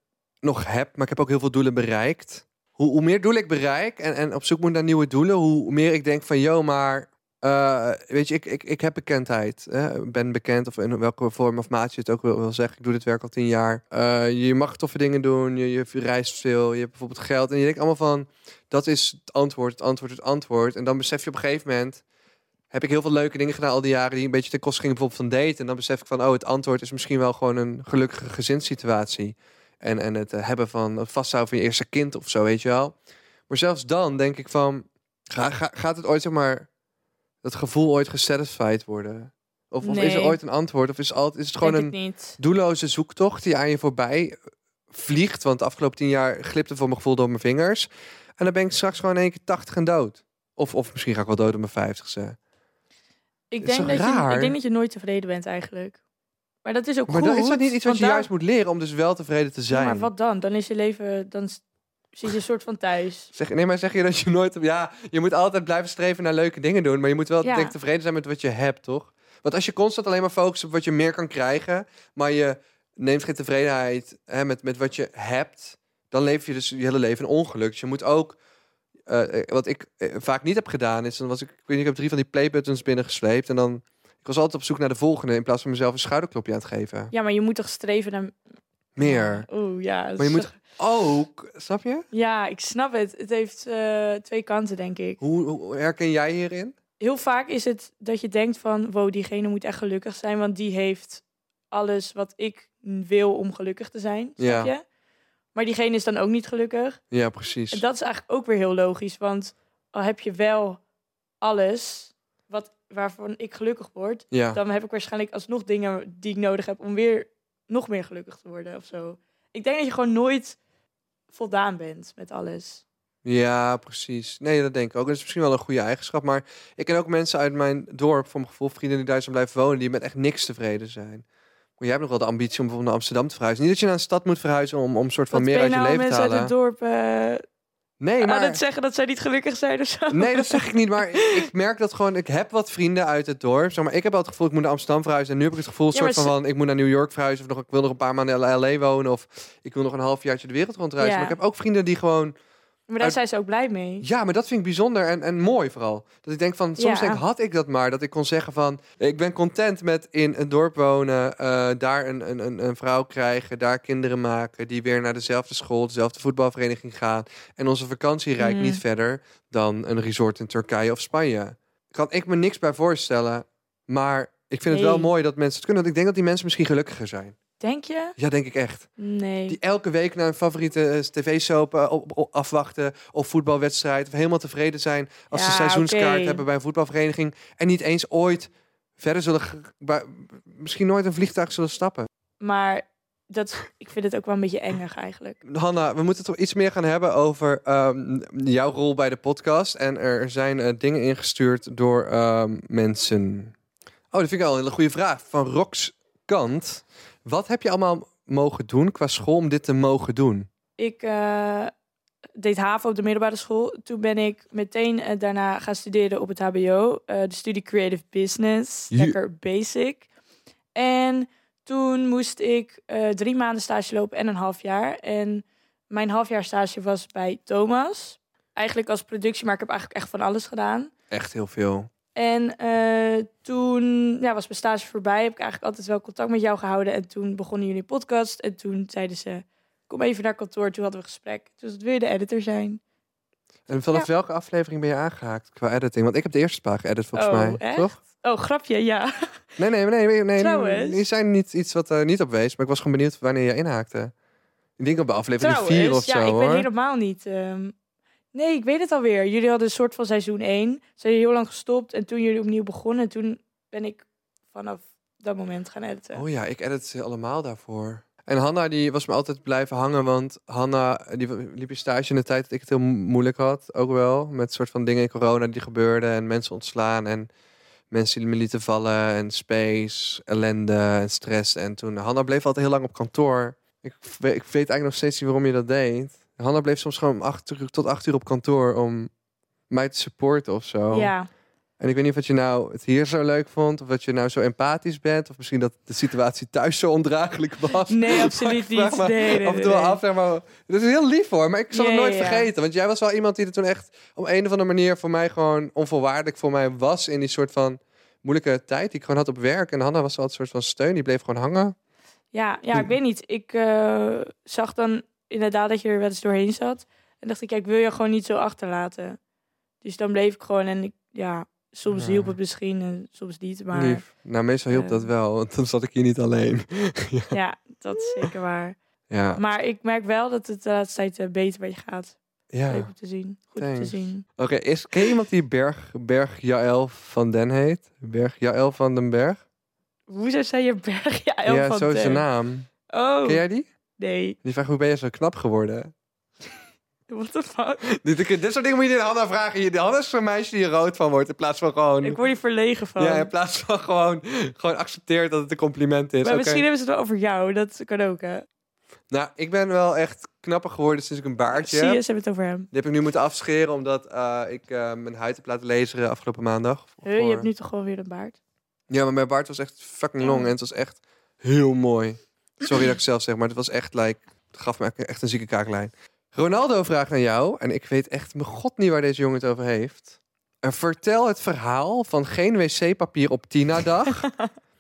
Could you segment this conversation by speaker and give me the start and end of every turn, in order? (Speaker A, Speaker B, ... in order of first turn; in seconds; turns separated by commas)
Speaker A: 0.4-22.0, Speaker A: 22.7-32.9, Speaker A: 33.5-36.7, Speaker A: 37.4-44.4, Speaker B: 39.8-40.4, Speaker B: 41.6-42.4, Speaker A: 44.9-52.4, Speaker B: 53.5-56.0, Speaker A: 53.6-54.5, Speaker B: 56.6-58.3, Speaker A: 57.1-60.1, Speaker B: 59.7-61.6, Speaker B: 62.1-63.3, Speaker A: 63.3-78.4, Speaker B: 67.4-67.7, Speaker A: 79.1-87.1, Speaker B: 87.1-88.4, Speaker A: 89.0-89.5, Speaker B: 89.0-90.5, Speaker A: 90.2-92.0, Speaker B: 92.1-95.2, Speaker A: 95.2-96.8, Speaker B: 97.0-104.8, Speaker A: 104.4-104.7, Speaker B: 105.5-107.0, Speaker A: 107.1-107.8, Speaker B: 107.7-110.8, Speaker B: 111.4-120.6, Speaker A: 114.3-114.6, Speaker B: 121.3-122.8, Speaker A: 123.2-131.2, Speaker A: 131.8-136.5, Speaker B: 135.3-137.4, Speaker A: 138.0-138.6, Speaker B: 138.2-141.4, Speaker A: 140.1-152.3, Speaker B: 145.9-146.3, Speaker B: 151.0-151.4, Speaker B: 152.9-154.0, Speaker A: 154.0-177.3, Speaker B: 156.8-157.2, Speaker B: 168.4-168.8, Speaker B: 174.7-175.1, Speaker B: 177.6-178.1, Speaker A: 178.2-178.9, Speaker B: 179.0-179.6, Speaker A: 179.5-192.1, Speaker B: 185.3-186.4, Speaker B: 192.4-195.4, Speaker A: 195.4-203.5, Speaker A: 204.1-210.5, Speaker B: 210.8-211.7, Speaker B: 212.4-220.1, Speaker A: 218.9-219.2, Speaker B: 220.7-230.9, Speaker A: 231.1-231.9, Speaker B: 232.1-242.8, Speaker A: 243.7-248.0, Speaker B: 247.1-249.1, Speaker A: 249.6-254.1, Speaker B: 250.4-251.0, Speaker A: 254.8-256.7, Speaker B: 255.4-257.7, Speaker B: 258.3-266.2, Speaker A: 266.1-277.3, Speaker A: 277.9-289.1, Speaker A: 289.7-291.1, Speaker B: 290.9-291.3, Speaker A: 291.8-311.7, Speaker B: 297.9-300.0, Speaker B: 301.7-302.5, Speaker B: 312.3-319.2, Speaker B: 319.8-324.0, Speaker A: 321.9-322.4, Speaker A: 323.7-327.3, Speaker B: 324.7-325.1, Speaker B: 327.3-328.8, Speaker A: 329.1-329.4, Speaker B: 329.3-332.1, Speaker A: 332.5-332.9, Speaker B: 332.7-334.2, Speaker A: 333.6-339.4, Speaker B: 340.1-342.2, Speaker A: 341.4-342.7, Speaker B: 342.9-343.4, Speaker A: 343.2-343.7, Speaker B: 344.0-344.4, Speaker A: 344.4-345.9, Speaker B: 347.1-347.8, Speaker A: 347.9-352.2, Speaker B: 352.0-353.3, Speaker A: 353.0-356.6, Speaker B: 356.2-358.4, Speaker A: 359.1-362.0, Speaker B: 361.5-362.7, Speaker A: 362.7-367.5, Speaker B: 367.0-368.4, Speaker A: 368.9-384.3, Speaker B: 370.2-370.5